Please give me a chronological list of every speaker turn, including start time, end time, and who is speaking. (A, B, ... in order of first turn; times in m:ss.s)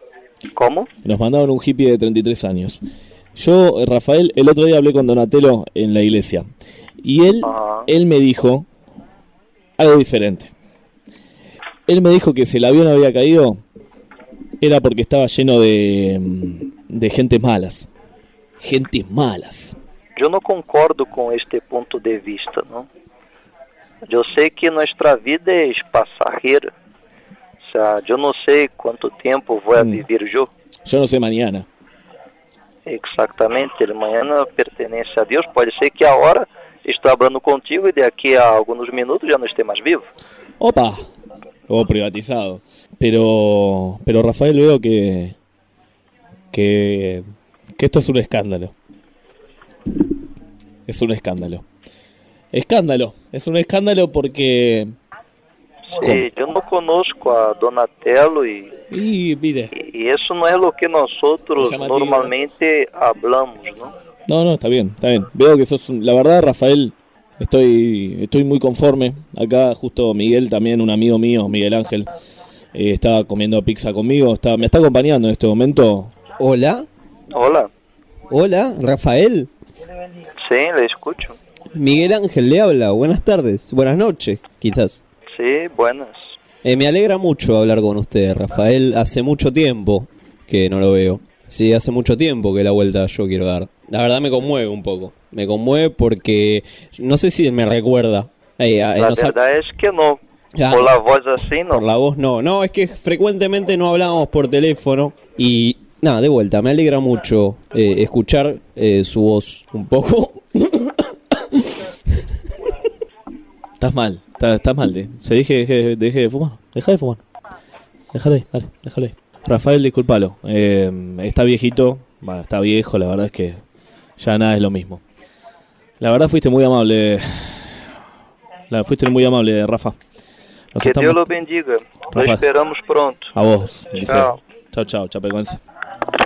0:00.6-0:00.9 A
0:01.0-0:02.8 B
0:03.3-0:06.5 B
0:07.0-0:08.6 B
0:07.4-0:07.9 A
0:09.8-0:10.5 B
0:11.9-0:13.6 B
0:14.6-0:17.9 B
0:18.6-0:19.7 B
0:20.2-0:22.9 A
0:24.1-0:26.7 A
0:27.6-0:30.5 A
0:29.8-0:30.0 B
0:30.8-0:31.6 B
0:32.8-0:40.0 A
0:40.6-0:41.0 B
0:41.7-0:45.3 B
0:46.5-0:47.2 B
0:47.8-0:48.7 B
0:50.9-0:51.6 B
0:52.5-0:54.9 B
0:55.9-0:58.8 A
0:56.0-0:56.3 B
0:58.9-0:59.7 B
0:59.7-1:03.9 A
1:01.6-1:02.3 B
1:04.3-1:12.1 B
1:12.7-1:16.1 B
1:16.4-1:16.8 C
1:17.3-1:17.7 A
1:18.3-1:19.5 C
1:20.4-1:21.3 A
1:21.7-1:25.0 C
1:25.3-1:26.2 A
1:26.6-1:39.4 C
1:38.9-1:41.8 A
1:40.6-1:41.0 C
1:41.7-1:50.7 C
1:53.8-1:57.2 B
1:58.1-2:03.6 B
2:04.2-2:05.0 B
2:06.0-2:07.6 B
2:08.7-2:10.0 B
2:10.7-2:11.2 B
2:10.8-2:13.3 A
2:12.1-2:12.4 B
2:13.3-2:15.6 B
2:14.0-2:14.4 A